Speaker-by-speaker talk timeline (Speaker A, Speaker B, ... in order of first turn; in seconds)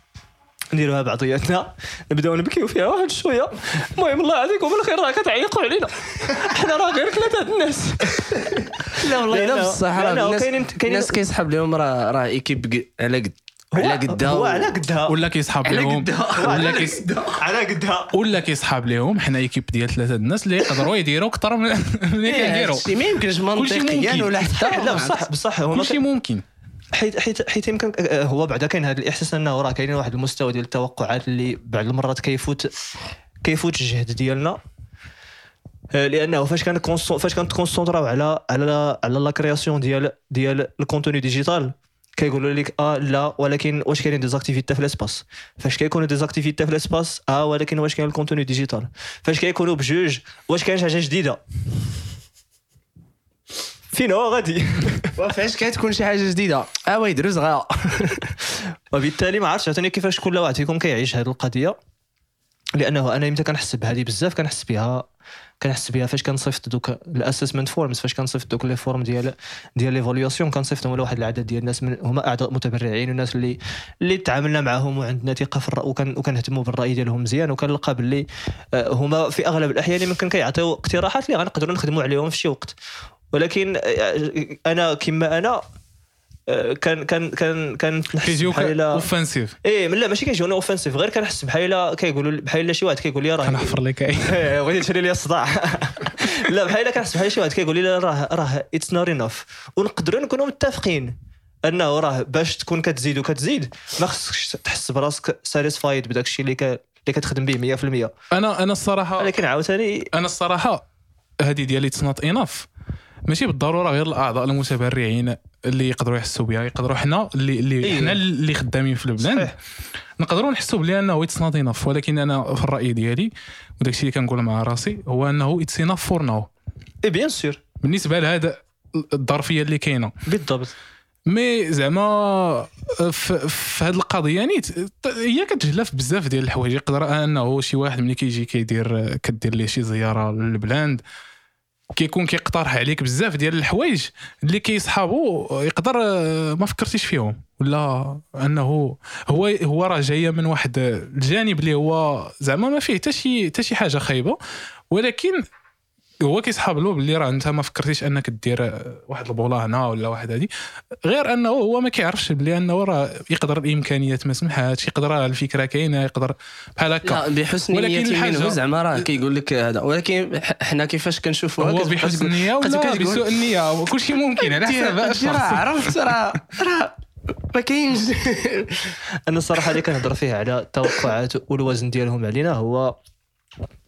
Speaker A: 0.7-11.2, 13.7-15.1, 16.4-18.1, 24.6-26.0, 26.9-32.7, 33.4-34.6, 35.9-51.4, 53.9-55.1, 58.9-61.8, 62.8-65.1, 65.6-82.7, 83.3-85.6, 86.5-89.0, 89.6-101.1, 101.6-108.1, 109.2-110.1, 119.2-119.5, 127.0-127.6, 130.2-130.7, 179.3-182.9
Speaker B: 8.8-14.8, 15.6-17.4, 22.2-25.3, 55.1-58.3, 117.9-118.1, 167.0-173.2, 174.4-179.0
Speaker C: 15.1-17.1, 18.1-22.9, 23.5-24.4, 25.7-26.4, 88.2-89.5, 93.4-94.3, 108.3-109.3, 110.1-110.8, 111.4-112.7, 113.3-119.5, 120.2-126.5, 127.8-130.1, 131.3-141.0, 141.9-154.4, 154.9-155.4, 156.2-160.5, 161.0-169.0, 171.6-176.0